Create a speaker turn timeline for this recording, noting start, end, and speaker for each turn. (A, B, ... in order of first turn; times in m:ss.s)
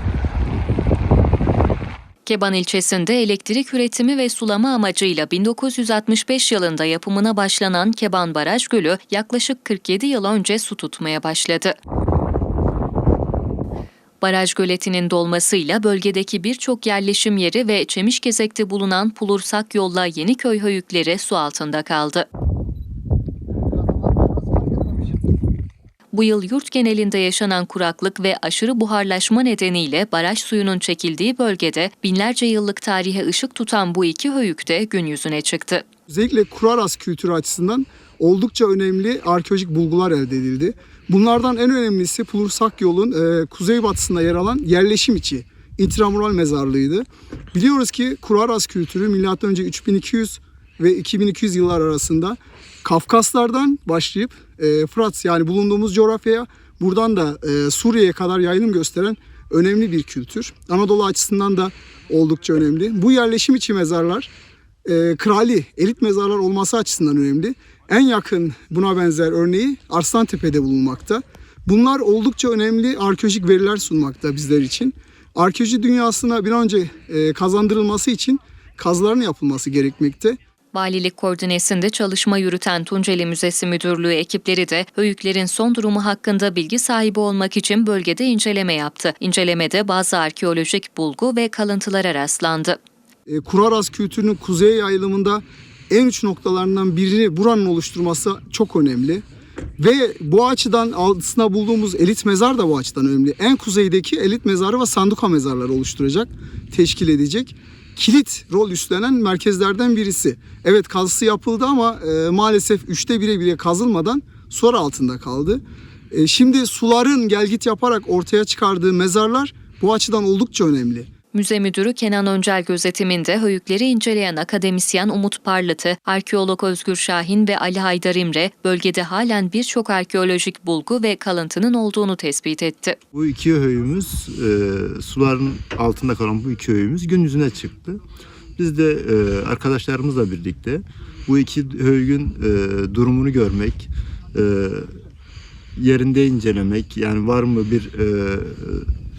0:02.2-0:11.7 A
0:14.2-0:22.3 A
0:26.1-0:35.8 A
0:36.1-1:04.3 B
1:04.8-1:20.4 B
1:20.7-1:32.8 A
1:33.3-1:39.2 B
1:39.8-2:01.1 B
2:01.3-2:13.0 A
2:13.1-2:18.0 C
2:18.6-2:24.9 C
2:25.8-2:28.9 C